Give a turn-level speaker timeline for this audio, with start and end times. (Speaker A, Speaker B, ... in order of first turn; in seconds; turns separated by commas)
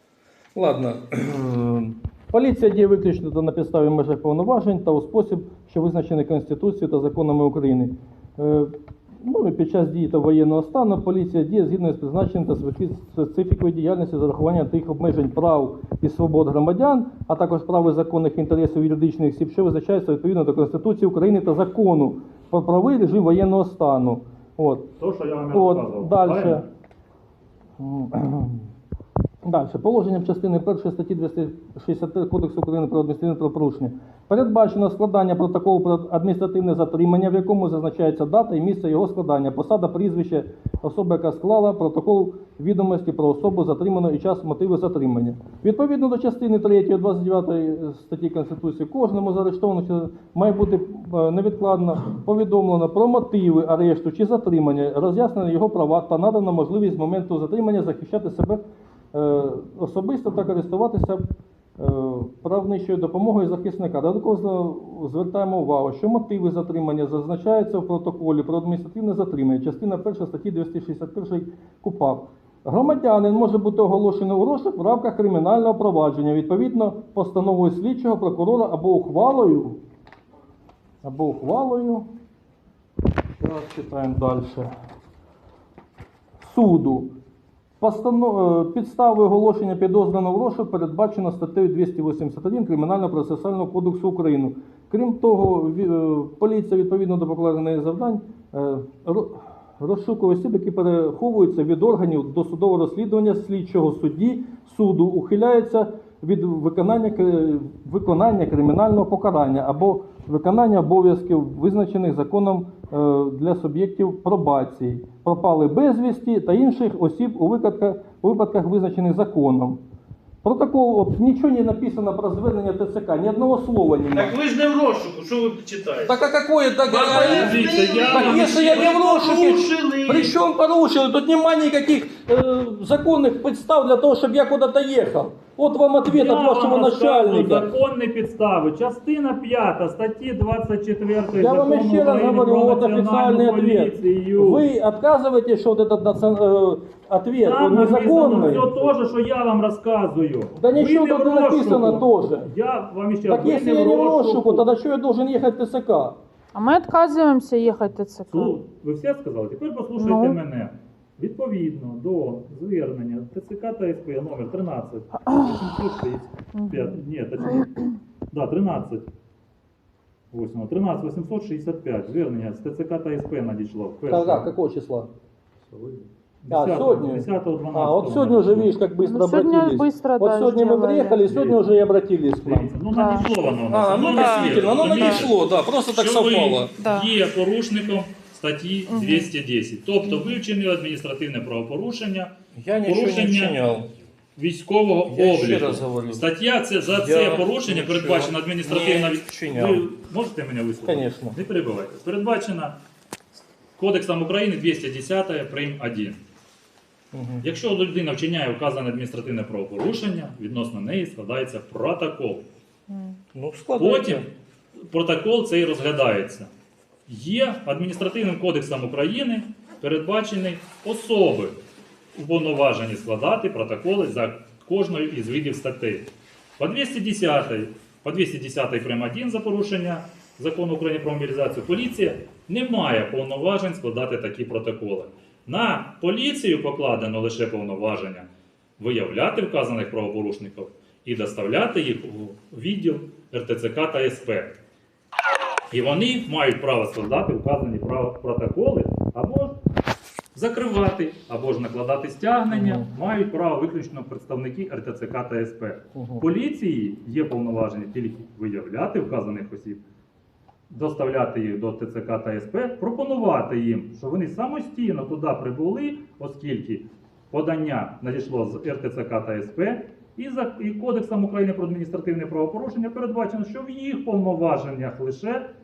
Speaker A: 0.6-24.9, Speaker B: 25.0-26.6, Speaker A: 25.5-26.6, Speaker A: 27.8-28.7, Speaker A: 29.4-58.6, Speaker A: 59.1-61.2, Speaker A: 61.8-79.8, Speaker A: 81.0-82.1, Speaker A: 83.4-84.7, Speaker A: 86.4-87.1, Speaker A: 87.8-119.8, Speaker A: 120.4-124.4, Speaker C: 124.1-126.1, Speaker A: 126.1-137.7, Speaker C: 126.9-130.4, Speaker B: 127.0-129.0, Speaker B: 136.1-144.7, Speaker A: 141.3-148.8, Speaker B: 147.4-154.7, Speaker A: 150.6-152.5, Speaker A: 153.2-156.2, Speaker D: 156.5-158.6, Speaker B: 158.3-169.1, Speaker D: 160.0-160.4, Speaker D: 166.6-166.9, Speaker B: 170.3-174.5, Speaker A: 174.1-175.1, Speaker B: 175.7-178.7, Speaker A: 176.5-182.7, Speaker D: 179.0-181.2, Speaker B: 181.3-181.6, Speaker B: 182.4-185.4, Speaker D: 182.9-183.4, Speaker A: 183.7-186.7, Speaker D: 184.0-185.2, Speaker B: 185.9-193.6, Speaker D: 186.8-187.1, Speaker D: 188.9-189.3, Speaker A: 192.6-193.9, Speaker B: 194.4-202.8, Speaker A: 195.1-196.3, Speaker A: 196.9-199.8, Speaker A: 200.8-201.4, Speaker B: 203.8-206.2, Speaker A: 207.1-207.4, Speaker B: 207.4-212.4, Speaker A: 213.3-214.3, Speaker B: 213.8-214.3, Speaker B: 214.8-216.5, Speaker B: 217.1-221.6, Speaker B: 222.2-226.1, Speaker B: 226.6-238.3, Speaker B: 238.8-244.5, Speaker B: 245.7-249.6, Speaker B: 250.3-259.8, Speaker A: 252.5-252.9, Speaker A: 255.9-256.2, Speaker B: 260.7-275.4